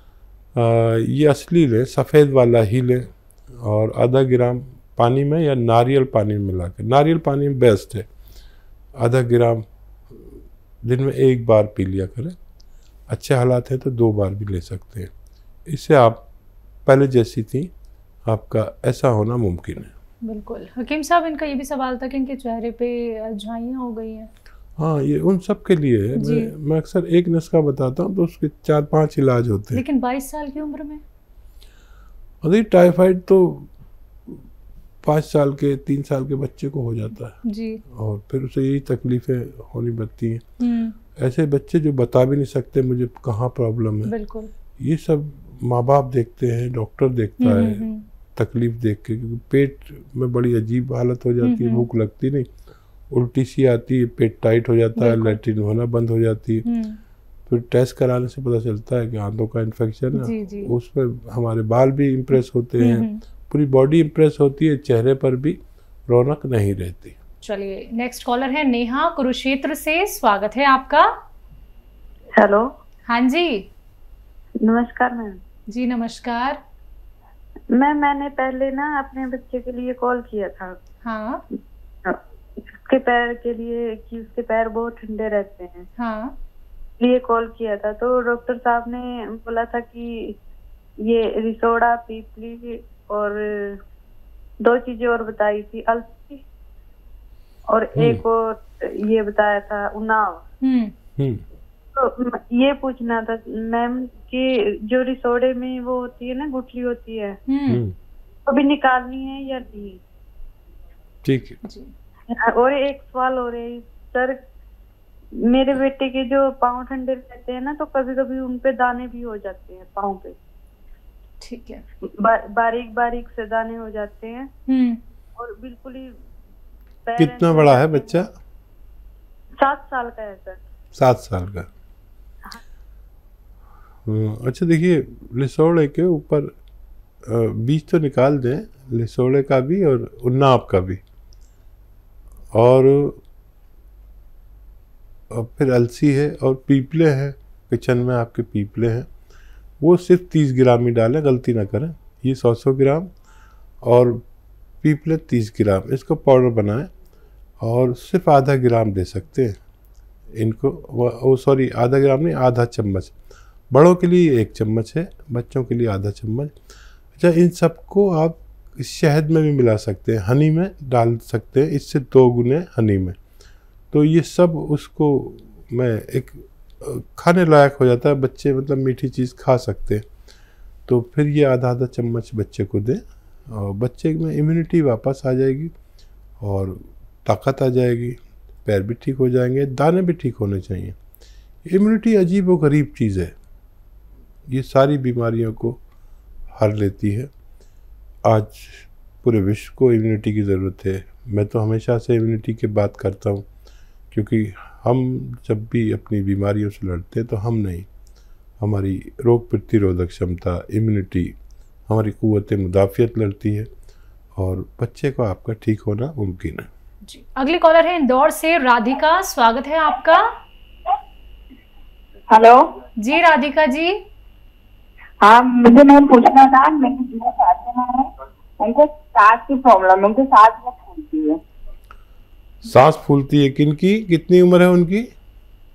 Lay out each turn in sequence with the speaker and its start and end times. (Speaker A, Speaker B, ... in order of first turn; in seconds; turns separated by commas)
Speaker A: 0.6-8.1, Speaker A: 9.0-12.3, Speaker A: 13.1-15.1, Speaker A: 15.7-16.3, Speaker A: 16.9-17.7, Speaker A: 18.3-19.9, Speaker B: 20.2-24.3, Speaker A: 24.8-29.8, Speaker B: 26.2-26.5, Speaker B: 29.8-31.0, Speaker A: 32.4-33.7, Speaker A: 35.0-37.4, Speaker B: 37.5-37.8, Speaker A: 37.9-40.4, Speaker B: 40.6-41.0, Speaker A: 41.2-44.1, Speaker B: 44.1-44.5, Speaker A: 44.8-47.9, Speaker B: 47.4-48.1, Speaker A: 48.4-52.5, Speaker B: 51.4-51.9, Speaker A: 53.1-56.7, Speaker B: 55.0-55.4, Speaker B: 56.6-57.0, Speaker A: 57.5-67.2, Speaker B: 60.2-60.7, Speaker B: 62.8-63.2, Speaker B: 67.4-71.1, Speaker C: 72.3-72.7, Speaker B: 73.1-73.7, Speaker C: 74.6-75.4, Speaker B: 75.7-76.6, Speaker C: 77.7-80.8, Speaker B: 81.0-81.4, Speaker C: 82.9-85.9, Speaker B: 86.0-86.3, Speaker C: 87.0-90.4, Speaker C: 91.0-93.8, Speaker C: 94.6-96.4, Speaker C: 97.7-100.4, Speaker A: 98.0-98.2, Speaker B: 100.6-100.9, Speaker A: 101.2-101.4, Speaker C: 102.0-107.4, Speaker B: 107.5-107.8, Speaker A: 107.7-108.0, Speaker C: 108.5-110.0, Speaker A: 111.2-111.6, Speaker B: 111.6-111.9, Speaker C: 112.5-114.4, Speaker C: 115.5-120.4, Speaker B: 121.4-121.8, Speaker C: 122.2-124.5, Speaker B: 124.7-125.0, Speaker C: 125.4-126.1, Speaker C: 127.1-128.2, Speaker A: 127.2-128.3, Speaker C: 129.6-130.6, Speaker A: 131.0-131.7, Speaker A: 134.1-136.5, Speaker A: 137.3-141.0, Speaker A: 142.5-143.2, Speaker A: 145.3-149.1, Speaker A: 149.8-153.1, Speaker A: 153.8-154.2, Speaker A: 154.8-156.9, Speaker A: 157.6-159.6, Speaker A: 160.4-163.1, Speaker A: 163.7-166.5, Speaker A: 167.2-173.2, Speaker A: 173.9-180.0, Speaker A: 180.9-185.7, Speaker A: 186.4-190.9, Speaker A: 191.7-193.3, Speaker A: 194.5-195.8, Speaker A: 196.6-197.3, Speaker A: 198.2-203.4, Speaker A: 204.1-207.9, Speaker A: 208.6-211.3, Speaker A: 211.9-213.7, Speaker A: 214.4-216.7, Speaker B: 217.1-220.2, Speaker D: 222.3-222.7, Speaker B: 223.0-224.0, Speaker D: 225.2-231.4, Speaker A: 232.6-235.1